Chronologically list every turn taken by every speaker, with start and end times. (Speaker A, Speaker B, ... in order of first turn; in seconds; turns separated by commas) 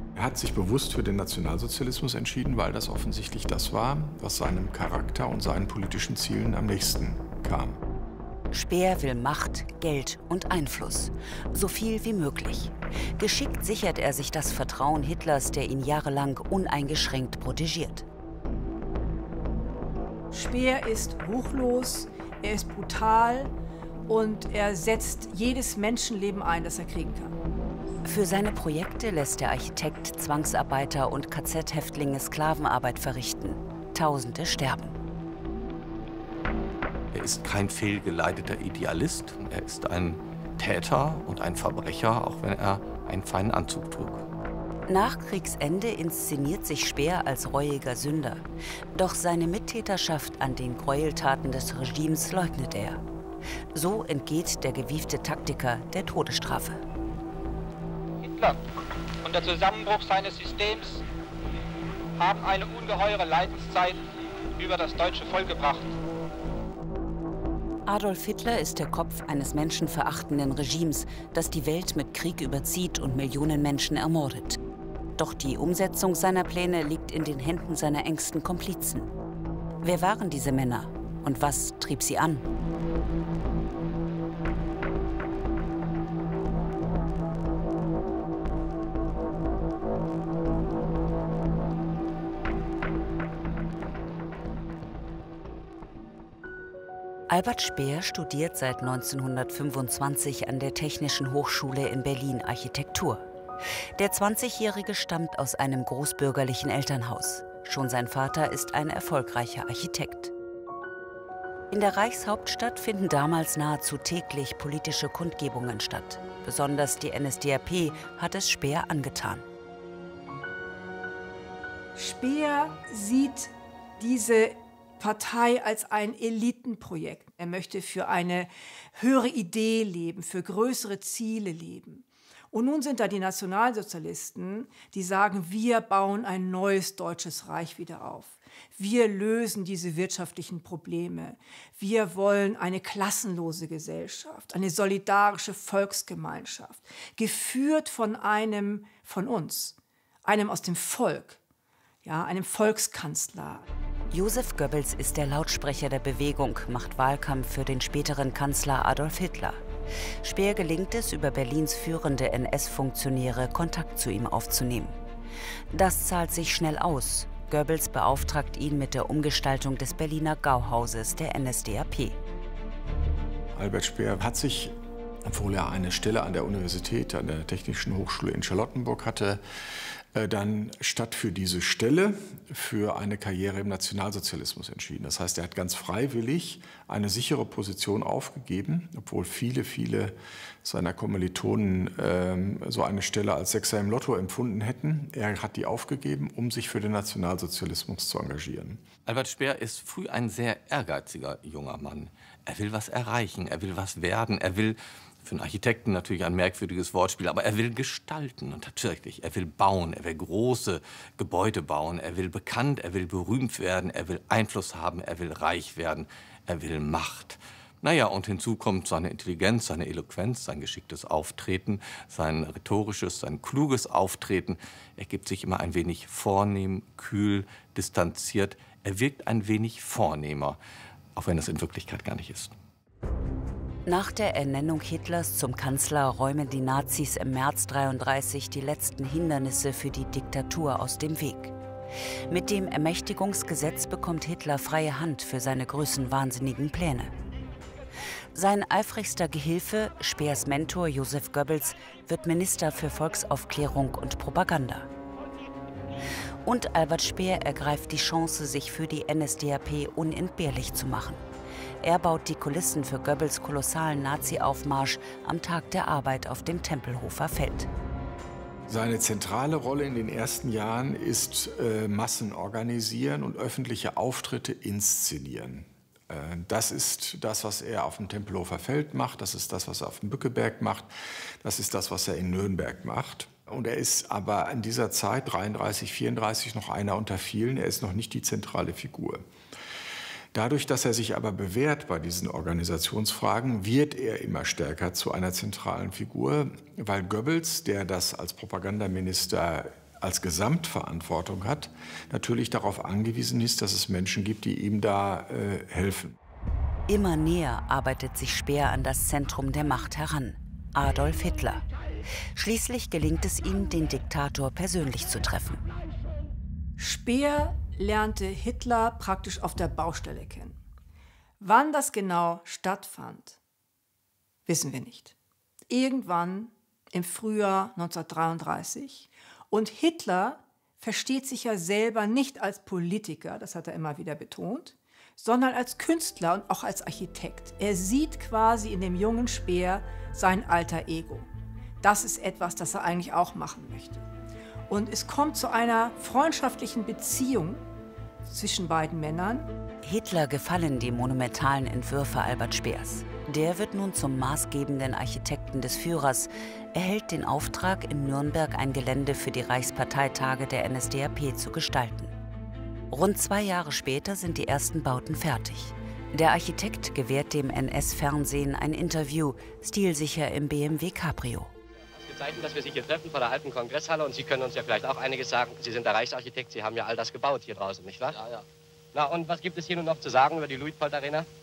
Speaker A: 0.1-7.8, Speaker B: 8.5-18.1, Speaker C: 20.3-23.5, Speaker C: 24.1-27.4, Speaker B: 28.1-34.9, Speaker D: 37.1-44.2, Speaker B: 44.9-48.4, Speaker B: 49.0-53.0, Speaker B: 53.7-56.8, Speaker E: 58.2-58.6, Speaker E: 59.2-61.0, Speaker E: 62.2-64.0, Speaker E: 64.6-66.0, Speaker B: 67.9-74.6, Speaker B: 75.2-79.1, Speaker B: 79.8-82.5, Speaker B: 97.3-103.2, Speaker B: 104.0-110.3, Speaker B: 111.7-119.5, Speaker C: 122.0-151.4, Speaker C: 152.0-153.7, Speaker B: 154.1-159.6, Speaker B: 160.2-165.0, Speaker B: 165.7-172.2, Speaker A: 173.5-179.4, Speaker A: 180.1-198.8, Speaker D: 199.1-230.6, Speaker D: 231.2-232.6, Speaker B: 233.9-241.5, Speaker B: 242.3-247.1, Speaker B: 248.3-254.9, Speaker B: 256.4-261.2, Speaker B: 261.8-267.7, Speaker A: 268.7-289.2, Speaker A: 290.3-306.2, Speaker B: 306.9-311.6, Speaker B: 312.4-315.6, Speaker C: 316.8-320.6, Speaker C: 321.4-323.4, Speaker C: 324.5-325.1, Speaker C: 325.7-341.3, Speaker C: 341.8-344.1, Speaker C: 344.7-347.6, Speaker C: 348.2-349.5, Speaker B: 349.8-362.1, Speaker B: 362.9-371.5, Speaker F: 372.0-378.2, Speaker E: 378.1-378.4, Speaker F: 378.9-381.3